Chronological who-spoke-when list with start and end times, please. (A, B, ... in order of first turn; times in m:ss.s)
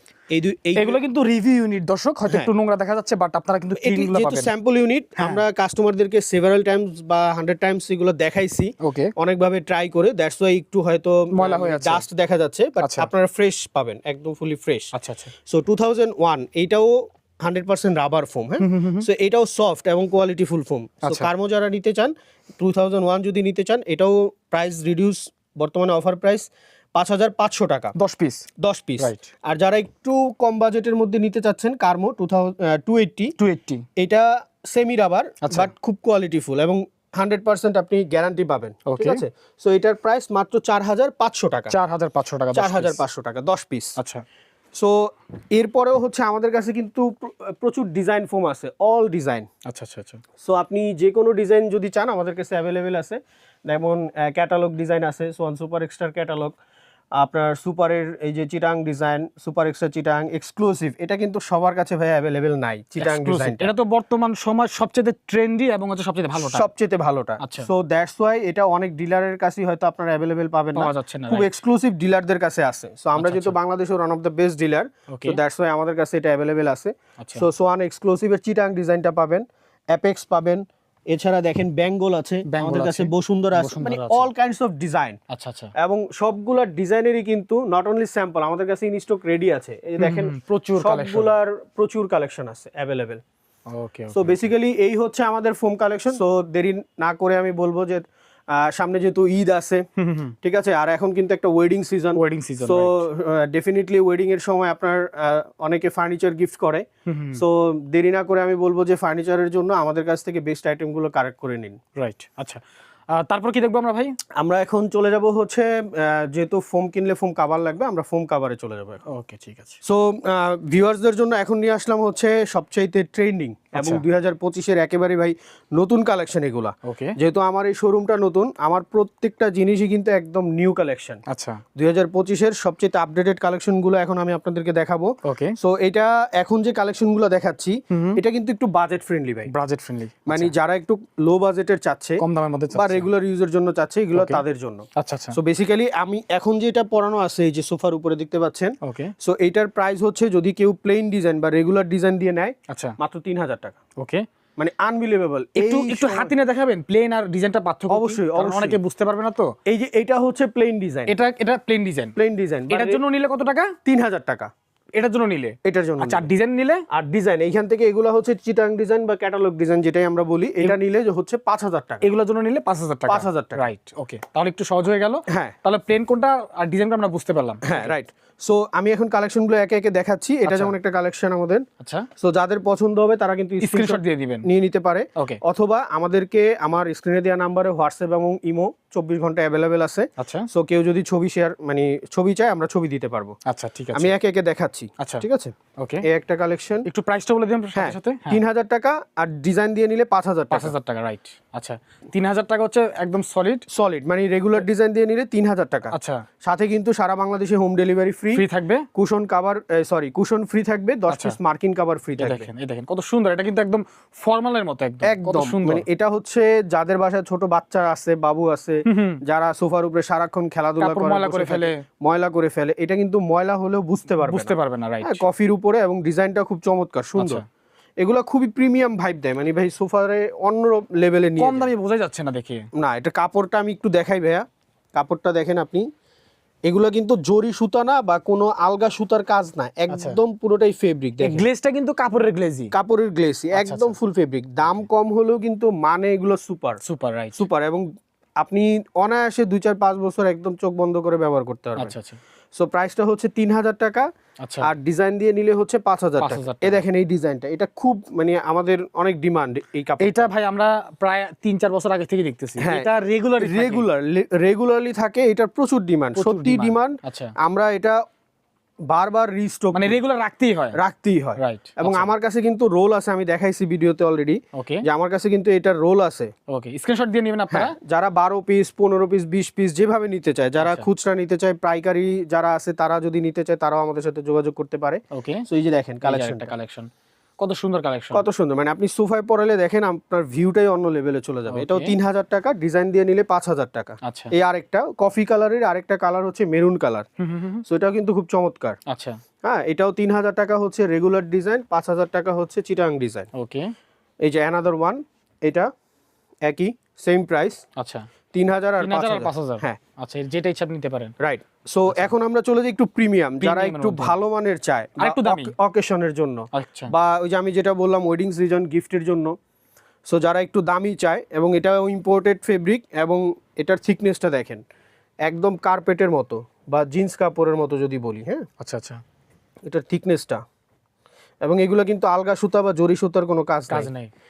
0:00.3-0:01.0 A
0:00.8-0:04.5 B
0:03.8-0:14.9 A
0:08.8-0:09.1 B
0:11.3-0:12.0 B
0:12.8-0:13.1 B
0:14.9-0:15.3 B
0:15.4-0:27.9 A
0:18.6-0:19.0 B
0:21.0-0:21.3 B
0:27.9-0:28.5 B
0:28.6-0:33.3 A
0:29.0-0:29.3 B
0:33.4-0:33.8 B
0:34.0-0:41.7 A
0:35.4-0:35.7 B
0:38.9-0:39.2 B
0:41.7-0:43.0 B
0:42.5-0:44.0 A
0:44.0-0:44.2 B
0:44.7-0:49.5 A
0:49.6-0:50.2 B
0:50.4-0:56.6 A
0:57.2-1:03.7 A
1:03.0-1:06.7 B
1:06.4-1:25.2 A
1:07.4-1:07.7 B
1:10.8-1:11.5 B
1:13.2-1:13.5 B
1:15.1-1:15.4 B
1:17.2-1:17.4 B
1:22.5-1:24.3 B
1:25.3-1:25.7 B
1:25.8-1:33.2 A
1:30.0-1:31.3 B
1:33.7-1:34.5 B
1:34.1-1:39.8 A
1:40.0-1:40.4 B
1:40.4-1:51.8 A
1:42.2-1:43.0 B
1:47.0-1:47.4 B
1:52.0-1:52.6 B
1:53.1-1:54.2 B
1:54.4-1:59.0 A
1:59.0-1:59.8 B
1:59.8-2:11.2 A
2:03.8-2:04.0 B
2:06.8-2:07.1 B
2:11.3-2:11.6 B
2:11.8-2:19.5 A
2:15.2-2:15.6 B
2:17.9-2:18.2 B
2:19.5-2:20.5 B
2:20.3-2:33.8 A
2:22.2-2:23.0 B
2:24.1-2:24.4 B
2:25.0-2:25.4 B
2:28.8-2:29.1 B
2:32.7-2:33.0 B
2:34.0-2:34.2 B
2:34.6-2:36.3 A
2:35.6-2:39.5 B
2:37.9-2:38.8 A
2:39.6-2:41.1 A
2:41.1-2:42.1 B
2:42.2-2:43.0 A
2:42.7-2:43.8 B
2:43.8-2:44.5 A
2:44.9-2:46.8 B
2:45.6-2:46.3 A
2:46.9-2:52.0 A
2:52.0-2:57.9 B
2:53.1-2:53.7 A
2:55.3-2:55.5 A
2:57.6-3:01.6 A
3:00.4-3:00.7 B
3:01.8-3:02.1 B
3:02.2-3:13.4 A
3:03.6-3:04.4 B
3:05.2-3:05.4 B
3:10.2-3:10.5 B
3:13.4-3:14.1 B
3:13.9-3:16.9 A
3:15.0-3:15.2 B
3:15.8-3:16.0 B
3:16.8-3:18.4 B
3:17.7-3:20.7 A
3:20.5-3:23.6 B
3:23.7-3:28.4 A
3:25.9-3:26.2 B
3:28.3-3:28.9 B
3:28.9-3:32.5 A
3:31.1-3:31.4 B
3:32.2-3:35.8 B
3:35.0-3:47.4 A
3:38.9-3:39.2 B
3:40.8-3:41.8 B
3:44.2-3:45.2 B
3:47.2-3:47.4 B
3:48.0-3:51.7 A
3:51.4-3:52.6 B
3:52.7-3:55.9 A
3:56.7-4:01.4 A
3:59.9-4:00.2 B
4:01.2-4:02.7 B
4:02.7-4:06.8 A
4:03.5-4:04.0 B
4:06.8-4:07.4 B
4:07.4-4:07.8 A
4:08.4-4:11.9 A
4:11.8-4:12.2 B
4:12.6-4:14.1 A
4:14.4-4:14.7 B
4:14.6-4:20.3 A
4:16.2-4:16.8 B
4:20.0-4:23.8 B
4:22.6-4:28.0 A
4:26.1-4:27.3 B
4:28.9-4:30.0 A
4:29.7-4:30.8 B
4:30.7-4:36.3 A
4:31.4-4:32.1 B
4:34.5-4:34.8 B
4:36.5-4:37.8 B
4:37.5-4:46.5 A
4:40.6-4:40.9 B
4:45.1-4:45.4 B
4:46.0-4:48.2 B
4:48.1-4:57.1 A
4:51.5-4:51.9 B
4:54.0-4:54.3 B
4:57.2-4:57.6 B
4:57.6-4:58.8 A
4:58.9-4:59.2 B
4:59.4-5:03.3 A
5:03.3-5:03.7 B
5:04.2-5:05.7 A
5:06.4-5:07.6 A
5:07.8-5:08.0 B
5:08.3-5:09.8 A
5:08.8-5:11.1 B
5:11.2-5:19.3 A
5:11.9-5:12.1 B
5:13.4-5:14.2 B
5:15.0-5:15.5 B
5:16.5-5:16.9 B
5:20.1-5:24.6 A
5:25.2-5:28.5 A
5:28.6-5:29.0 B
5:29.6-5:30.4 A
5:31.4-5:33.9 A
5:33.7-5:34.1 B